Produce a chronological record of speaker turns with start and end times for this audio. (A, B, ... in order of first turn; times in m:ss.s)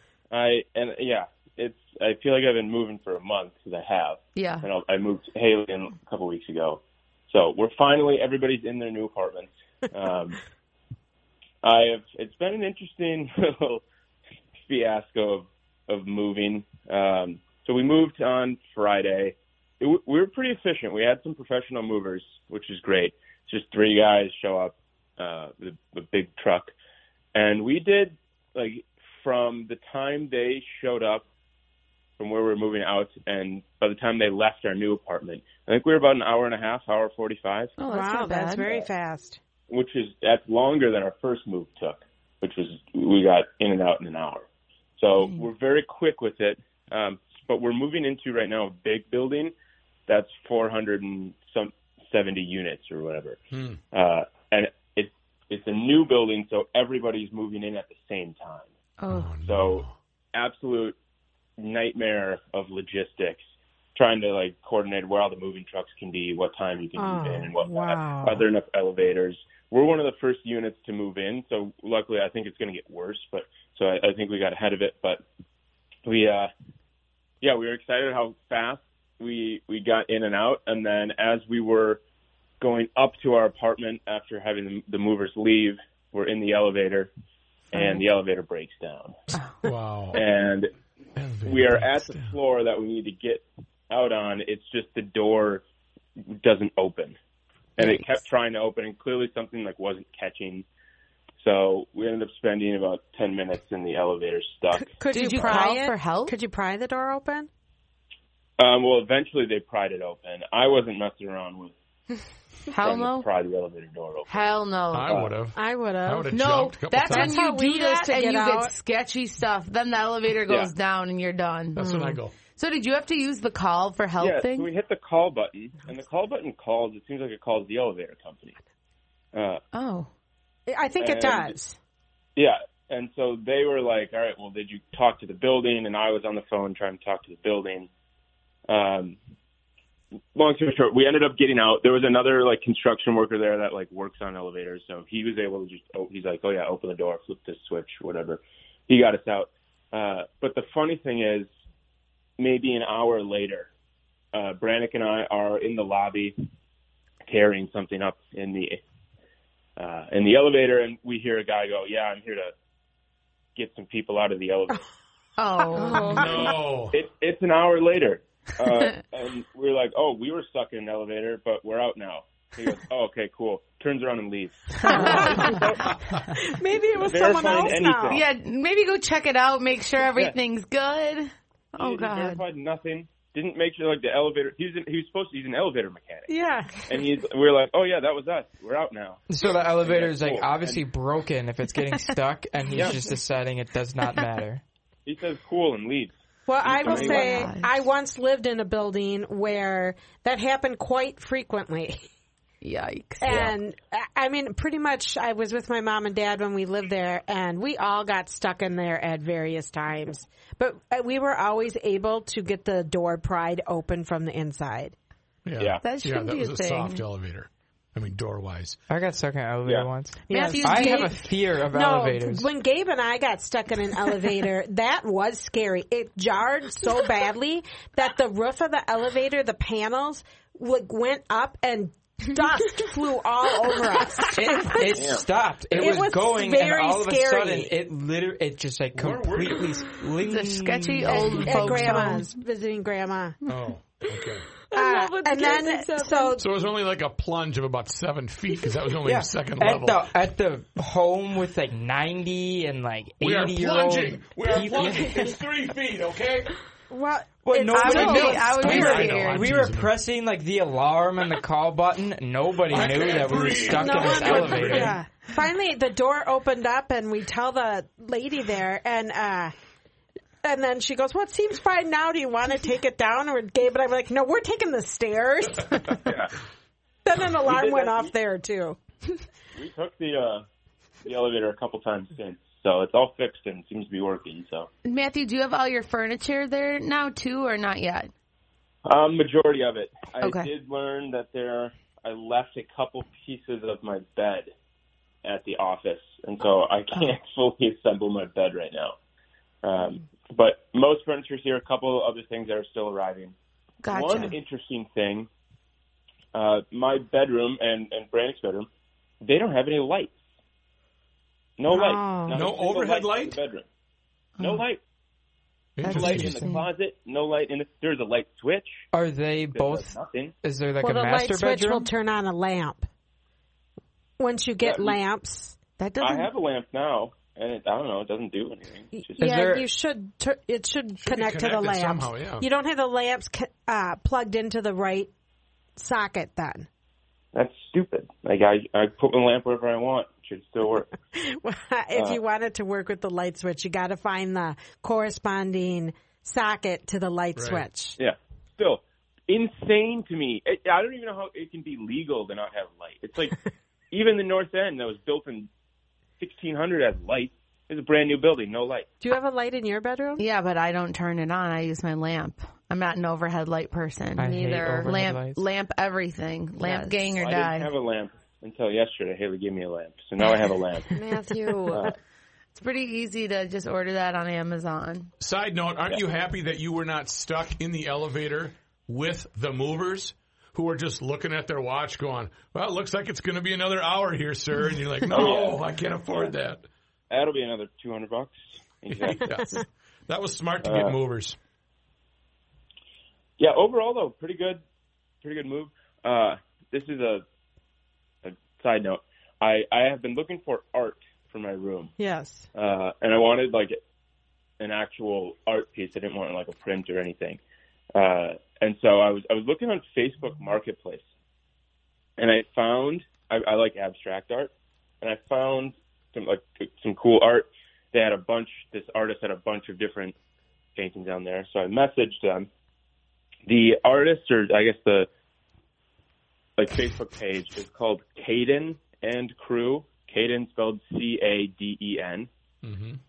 0:00.3-0:10.4 A
0:04.4-0:04.7 B
0:11.6-0:13.8 A
0:14.6-0:26.7 A
0:27.4-0:31.2 A
0:32.2-0:37.8 A
0:37.8-0:38.7 B
0:37.9-0:39.4 C
0:39.7-0:44.5 A
0:45.0-0:49.5 A
0:50.1-0:53.4 A
0:53.5-0:53.8 D
0:53.9-0:58.7 A
0:59.0-0:59.4 B
0:59.1-0:59.9 D
0:59.4-1:01.0 A
1:01.6-1:03.4 A
1:04.0-1:15.2 A
1:07.0-1:08.5 C
1:16.0-1:16.5 A
1:17.4-1:22.0 A
1:22.6-1:27.1 A
1:27.7-1:29.2 A
1:27.7-1:28.0 B
1:29.6-1:30.2 D
1:30.1-1:30.7 A
1:31.2-1:32.4 D
1:31.4-1:35.6 A
1:36.3-1:37.2 A
1:37.8-1:40.6 A
1:41.4-1:45.6 A
1:45.0-1:47.5 C
1:45.1-1:46.3 B
1:48.6-1:51.8 A
1:52.7-1:53.3 B
1:52.8-1:54.3 A
1:54.3-1:55.2 B
1:54.9-1:57.4 D
1:55.6-1:56.4 C
1:56.3-2:04.7 B
1:57.0-1:58.7 C
2:00.5-2:00.7 A
2:01.8-2:02.4 D
2:01.8-2:02.2 C
2:04.2-2:08.6 A
2:09.3-2:09.6 A
2:09.7-2:10.1 B
2:10.7-2:11.8 C
2:11.0-2:11.6 A
2:12.4-2:17.9 A
2:18.7-2:19.2 A
2:20.4-2:31.5 A
2:32.4-2:33.7 A
2:34.3-2:36.4 A
2:37.3-2:38.8 A
2:39.8-2:42.5 A
2:43.6-2:44.9 A
2:45.4-2:46.3 B
2:45.7-2:46.4 E
2:46.0-2:47.0 D
2:46.3-2:56.0 A
2:54.9-2:55.6 B
2:54.9-2:55.7 C
2:56.3-2:58.2 C
2:57.0-2:58.3 A
2:58.1-3:02.4 B
3:01.7-3:10.8 A
3:06.3-3:06.9 C
3:09.3-3:14.6 F
3:12.8-3:13.0 A
3:15.1-3:17.5 A
3:16.5-3:22.1 C
3:16.8-3:17.7 B
3:22.6-3:23.5 B
3:23.2-3:35.0 C
3:35.4-3:38.8 D
3:35.6-3:35.8 A
3:35.8-3:37.0 B
3:38.9-3:42.4 F
3:40.3-3:55.0 C
3:40.3-3:41.1 B
3:54.4-4:02.1 F
3:54.9-3:55.3 A
3:55.7-3:57.7 C
3:59.0-3:59.8 D
4:00.2-4:02.3 B
4:01.0-4:03.4 C
4:03.5-4:04.5 D
4:04.7-4:06.4 E
4:04.7-4:06.4 C
4:06.4-4:10.1 D
4:09.0-4:15.3 F
4:13.2-4:16.5 D
4:16.9-4:19.1 C
4:17.4-4:25.0 F
4:17.7-4:19.5 B
4:18.0-4:20.0 D
4:22.7-4:25.0 D
4:23.7-4:29.5 C
4:30.4-4:36.2 C
4:36.0-4:36.3 A
4:37.0-4:38.8 C
4:37.4-4:38.1 A
4:39.5-4:40.4 A
4:41.0-4:44.7 A
4:44.8-4:48.1 B
4:48.8-4:54.5 A
4:50.2-4:50.5 B
4:55.2-4:59.0 A
4:59.6-5:03.4 A
5:03.8-5:04.4 B
5:03.9-5:05.3 A
5:06.3-5:08.7 A
5:09.2-5:10.2 A
5:11.6-5:13.7 A
5:11.7-5:12.4 C
5:12.3-5:13.4 D
5:14.4-5:14.6 B
5:14.4-5:14.8 A
5:15.8-5:16.5 D
5:15.8-5:16.6 B
5:15.8-5:18.8 A
5:18.9-5:21.9 F
5:19.5-5:20.3 A
5:20.8-5:22.9 C
5:24.2-5:25.6 C
5:24.6-5:25.0 A
5:25.8-5:26.3 B
5:26.0-5:29.3 A
5:28.9-5:35.1 C
5:29.2-5:29.7 F
5:31.0-5:32.5 D
5:35.8-5:36.7 C
5:37.3-5:40.9 A
5:41.1-5:48.0 C
5:41.9-5:42.2 A
5:47.4-5:47.6 D
5:48.0-5:53.4 A
5:53.9-5:55.5 A
5:56.2-5:58.9 A
5:59.0-6:00.2 C
6:00.2-6:07.7 B
6:04.2-6:05.4 F
6:04.2-6:04.9 E
6:06.6-6:07.0 E
6:07.1-6:11.0 A
6:10.9-6:11.9 E
6:11.7-6:12.0 A
6:12.6-6:15.1 B
6:15.2-6:26.6 D
6:25.1-6:25.6 A
6:27.1-6:29.4 A
6:28.9-6:31.4 D
6:30.6-6:31.0 A
6:33.4-6:34.6 A
6:35.2-6:37.2 A
6:38.2-6:41.9 A
6:42.0-6:42.5 C
6:42.6-6:43.8 A
6:44.6-6:47.4 A
6:47.9-6:51.0 A
6:52.2-7:00.2 A
7:00.8-7:02.5 A
7:03.5-7:05.1 A
7:06.6-7:12.3 A
7:12.6-7:13.0 D